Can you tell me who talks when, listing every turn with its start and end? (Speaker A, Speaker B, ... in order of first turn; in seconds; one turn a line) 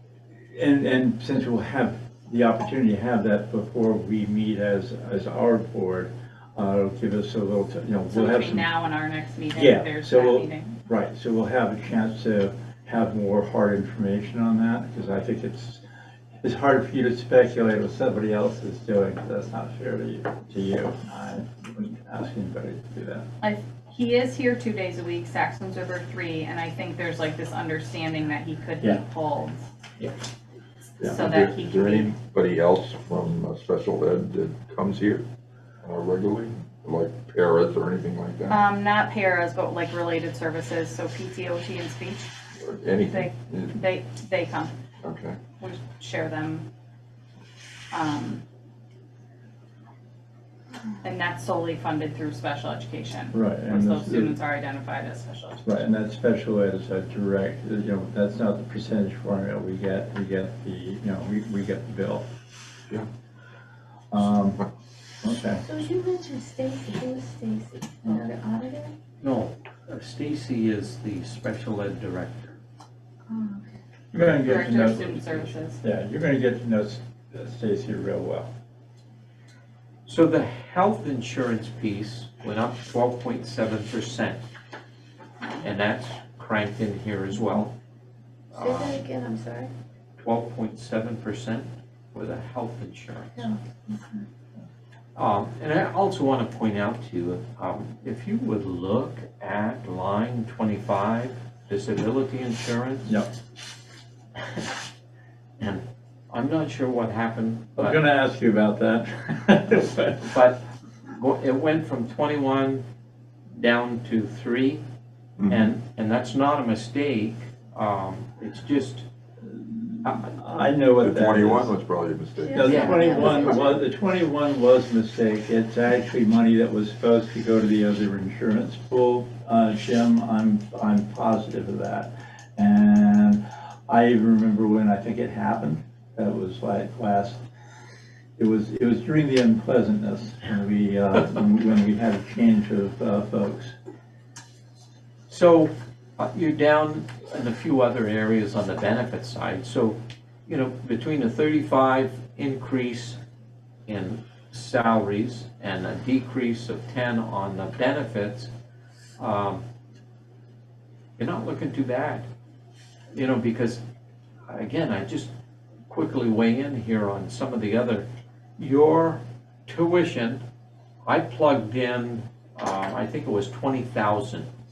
Speaker A: 0.4-8.7
Speaker B: 8.1-10.7
Speaker A: 9.6-15.8
Speaker A: 16.4-23.3
Speaker B: 23.4-29.7
Speaker B: 31.0-32.1
Speaker C: 31.0-35.2
Speaker C: 35.8-38.6
Speaker B: 38.5-42.3
Speaker C: 42.6-43.8
Speaker B: 43.0-44.7
Speaker C: 45.0-45.4
Speaker B: 45.6-46.7
Speaker B: 47.9-48.4
Speaker B: 51.0-55.8
Speaker A: 53.3-54.4
Speaker A: 55.6-62.2
Speaker A: 64.1-64.7
Speaker A: 65.2-65.6
Speaker D: 65.6-68.9
Speaker E: 69.2-72.5
Speaker D: 73.3-73.8
Speaker A: 74.1-75.1
Speaker E: 74.2-75.5
Speaker B: 74.5-75.8
Speaker A: 75.8-78.5
Speaker E: 80.1-84.4
Speaker E: 85.6-87.7
Speaker E: 88.5-89.0
Speaker D: 88.5-89.7
Speaker E: 90.2-93.5
Speaker D: 93.4-94.2
Speaker E: 95.2-103.2
Speaker E: 104.4-104.7
Speaker E: 105.6-108.0
Speaker A: 107.8-110.4
Speaker E: 110.2-112.8
Speaker E: 113.5-114.8
Speaker C: 115.4-115.7
Speaker E: 115.5-119.1
Speaker A: 119.5-121.8
Speaker E: 120.0-120.3
Speaker C: 121.0-122.9
Speaker D: 122.4-123.7
Speaker A: 122.5-137.4
Speaker E: 122.6-123.2
Speaker A: 138.4-143.8
Speaker E: 145.3-153.2
Speaker E: 153.9-158.5
Speaker E: 159.2-159.6
Speaker E: 161.2-162.3
Speaker E: 163.1-163.8
Speaker E: 164.5-165.3
Speaker E: 165.9-168.1
Speaker E: 168.6-170.4
Speaker E: 171.1-174.5